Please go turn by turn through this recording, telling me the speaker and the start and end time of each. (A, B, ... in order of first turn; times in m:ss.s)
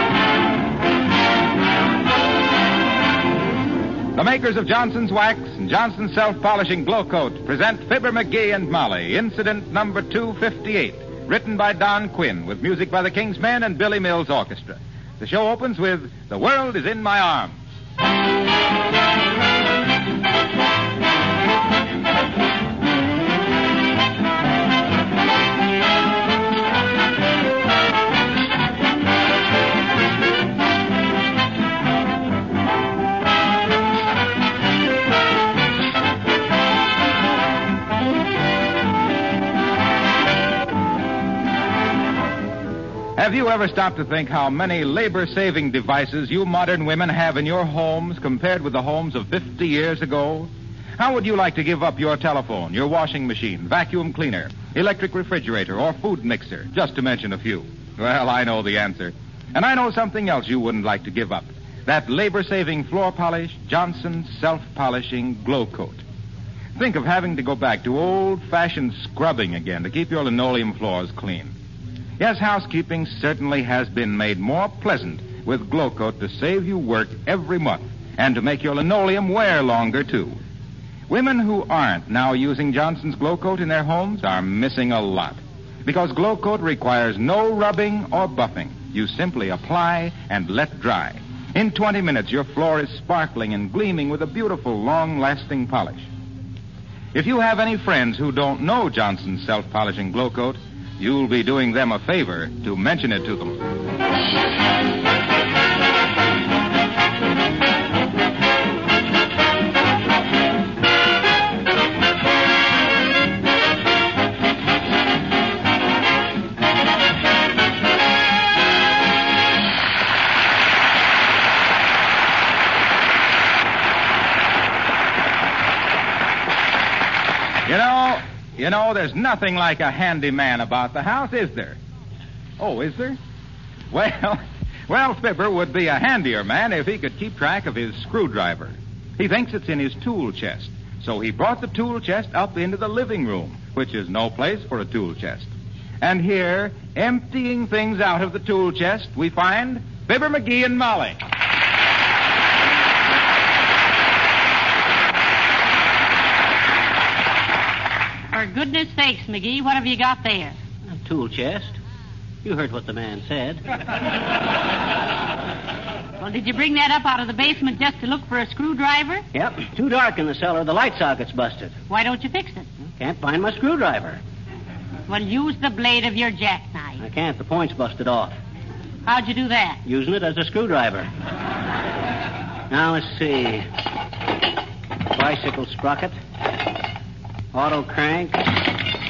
0:04.2-0:17.6 A
0:43.2-1:06.0 A
1:06.8-1:11.5 A
1:12.2-1:20.4 A
1:21.1-1:36.1 A
1:37.1-1:43.6 A
2:07.7-2:11.8 A
2:12.6-2:13.2 A
2:13.9-2:25.5 A
2:26.0-2:31.2 A
2:38.3-2:40.6 B
2:40.9-2:41.8 C
2:42.4-2:43.6 C
2:46.2-2:49.2 B
2:49.3-2:51.7 C
2:51.9-2:52.7 B
2:53.0-2:54.2 C
2:55.1-2:57.0 B
2:57.0-2:58.4 C
2:59.1-2:59.8 B
2:59.8-3:01.1 C
3:02.7-3:03.7 C
3:05.1-3:06.2 C
3:07.5-3:08.6 C